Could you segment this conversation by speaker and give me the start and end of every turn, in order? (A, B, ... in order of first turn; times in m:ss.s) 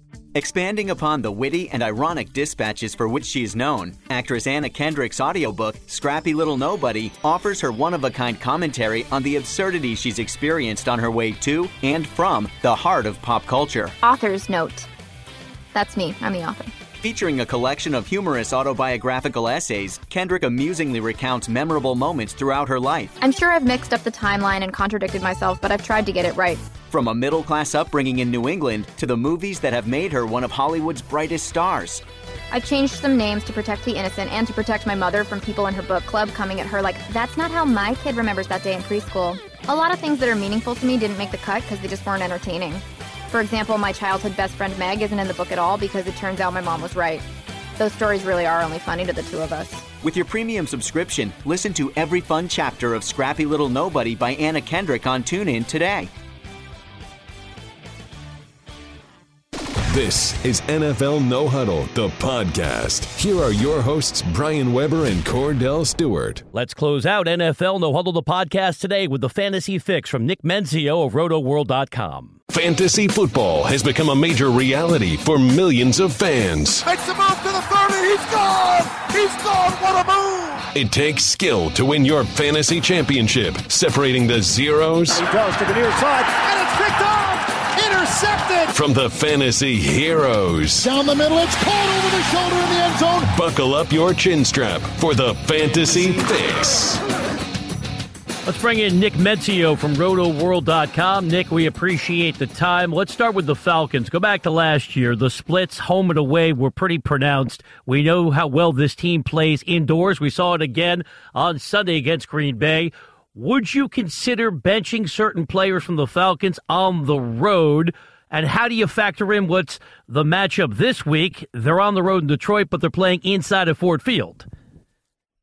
0:00.3-0:13.9 A
0:14.0-0:14.9 B
0:15.7-0:16.7 B
0:17.0-0:23.2 A
0:23.2-0:26.6 B
0:26.9-0:32.0 A
0:32.5-0:47.2 B
0:47.8-0:49.8 B
0:50.0-0:56.1 A
0:59.9-1:06.4 C
1:06.5-1:12.3 D
1:12.5-1:16.9 C
1:16.8-1:20.6 E
1:20.7-1:25.2 C
1:25.1-1:28.7 E
1:28.7-1:30.9 C
1:30.8-1:33.3 E
1:33.2-1:37.0 C
1:38.4-2:04.5 D